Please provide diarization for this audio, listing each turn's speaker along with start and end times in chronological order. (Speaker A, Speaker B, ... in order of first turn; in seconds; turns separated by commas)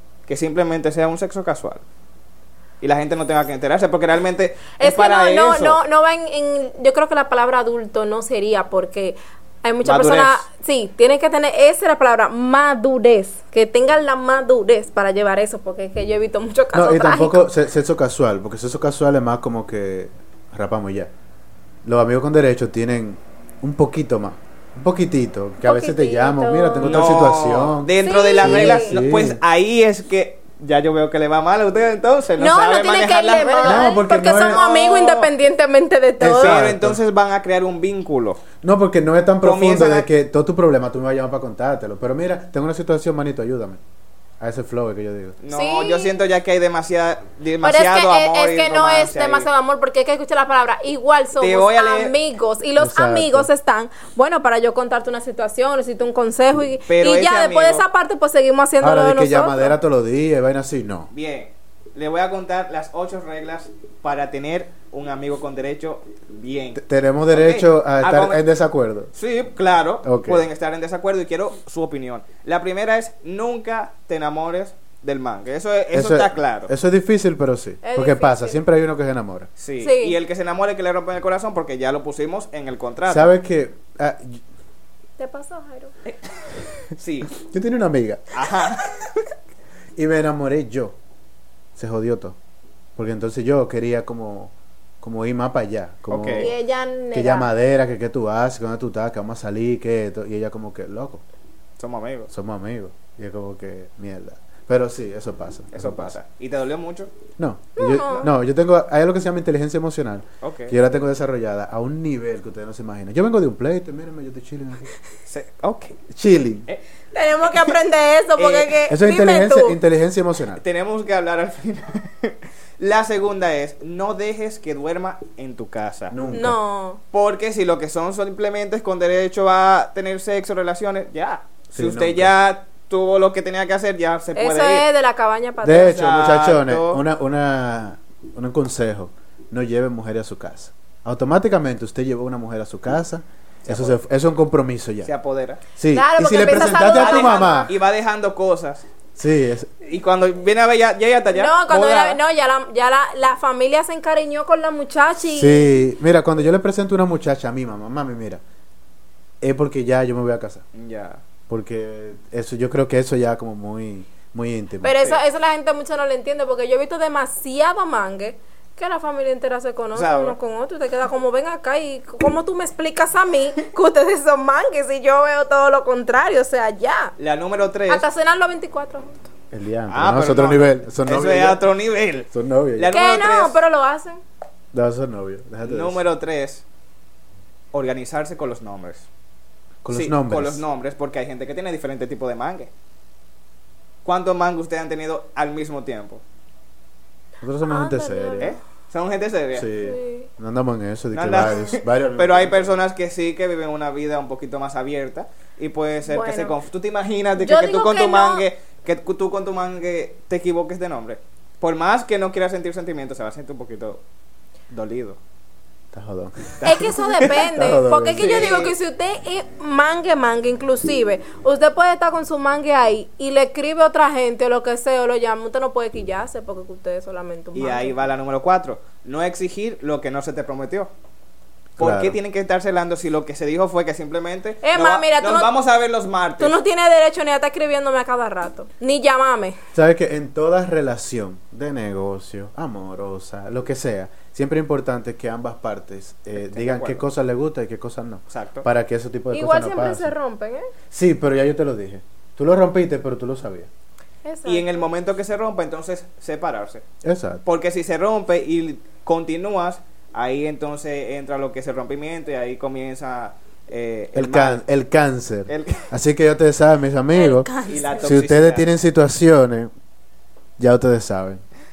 Speaker A: 0.3-1.8, Speaker A: 2.8-5.8, Speaker B: 4.8-17.5, Speaker A: 9.8-10.4, Speaker C: 16.7-21.1, Speaker C: 21.9-29.4, Speaker B: 25.6-27.2, Speaker A: 26.8-34.7, Speaker B: 28.0-29.0, Speaker B: 32.4-36.6, Speaker C: 33.6-35.3, Speaker C: 36.2-37.0, Speaker A: 36.4-38.4, Speaker C: 38.6-43.8, Speaker A: 39.4-40.1, Speaker C: 44.4-45.4, Speaker A: 45.4-49.5, Speaker B: 45.5-46.2, Speaker B: 47.6-59.8, Speaker A: 51.4-52.1, Speaker C: 52.8-53.5, Speaker A: 56.9-57.9, Speaker C: 58.8-61.1, Speaker A: 61.1-68.4, Speaker C: 66.8-69.1, Speaker A: 69.2-76.7, Speaker C: 70.0-70.5, Speaker C: 75.9-79.5, Speaker B: 77.8-78.6, Speaker A: 79.6-83.3, Speaker B: 79.8-80.2, Speaker C: 83.1-84.4, Speaker B: 85.2-85.9, Speaker A: 87.0-87.3, Speaker C: 87.3-88.5, Speaker A: 88.3-89.0, Speaker C: 90.0-91.0, Speaker C: 91.8-92.4, Speaker C: 93.0-96.6, Speaker A: 96.1-96.5, Speaker B: 96.4-97.5, Speaker C: 97.1-101.2, Speaker A: 101.8-102.3, Speaker C: 102.3-106.2, Speaker A: 105.7-107.1, Speaker C: 107.4-114.9, Speaker B: 107.8-108.3, Speaker A: 110.4-110.8, Speaker A: 115.3-116.0, Speaker C: 116.1-116.7, Speaker B: 117.1-119.8, Speaker A: 117.5-117.8, Speaker A: 118.4-118.9, Speaker C: 118.9-120.6, Speaker A: 120.6-126.2, Speaker C: 126.1-126.6, Speaker B: 126.3-127.0, Speaker A: 127.1-134.9, Speaker C: 131.7-132.3, Speaker B: 134.3-136.1, Speaker C: 135.6-145.1, Speaker A: 135.8-137.0, Speaker A: 143.7-144.0, Speaker A: 145.0-145.6, Speaker C: 145.8-147.8, Speaker B: 145.9-147.7, Speaker A: 146.5-148.9, Speaker C: 149.2-149.7, Speaker A: 149.8-152.2, Speaker B: 151.3-155.7, Speaker C: 155.3-158.4, Speaker C: 159.4-160.6, Speaker A: 160.8-161.2, Speaker C: 161.5-165.1, Speaker B: 164.8-177.2, Speaker A: 169.9-170.4, Speaker A: 177.2-178.1, Speaker B: 177.9-179.3, Speaker C: 179.5-181.6, Speaker A: 179.9-183.6, Speaker C: 182.3-183.0, Speaker B: 182.9-184.2, Speaker C: 184.7-186.0, Speaker A: 185.6-186.6, Speaker A: 187.7-189.1, Speaker C: 189.8-190.6, Speaker A: 189.9-192.7, Speaker A: 194.0-196.2, Speaker C: 197.4-198.6, Speaker B: 197.6-198.6, Speaker A: 198.4-199.7, Speaker C: 199.5-202.8, Speaker B: 199.8-200.3, Speaker A: 201.1-214.0, Speaker B: 206.1-206.6, Speaker B: 207.4-208.5, Speaker A: 214.7-215.2, Speaker C: 215.9-216.6, Speaker A: 216.6-217.5, Speaker B: 216.6-227.9, Speaker C: 217.2-218.3, Speaker A: 218.2-218.7, Speaker A: 227.6-230.9, Speaker C: 231.8-232.2, Speaker A: 231.8-236.6, Speaker B: 234.6-235.5, Speaker B: 236.4-239.6, Speaker C: 239.7-250.1, Speaker A: 246.4-247.0, Speaker A: 248.3-248.7, Speaker B: 249.3-250.7, Speaker C: 250.9-253.7, Speaker B: 254.2-254.8, Speaker A: 254.4-256.8, Speaker C: 257.0-257.4, Speaker A: 257.4-264.6, Speaker C: 264.1-269.7, Speaker A: 265.5-265.9, Speaker B: 267.1-268.2, Speaker A: 267.7-268.8, Speaker C: 270.6-271.4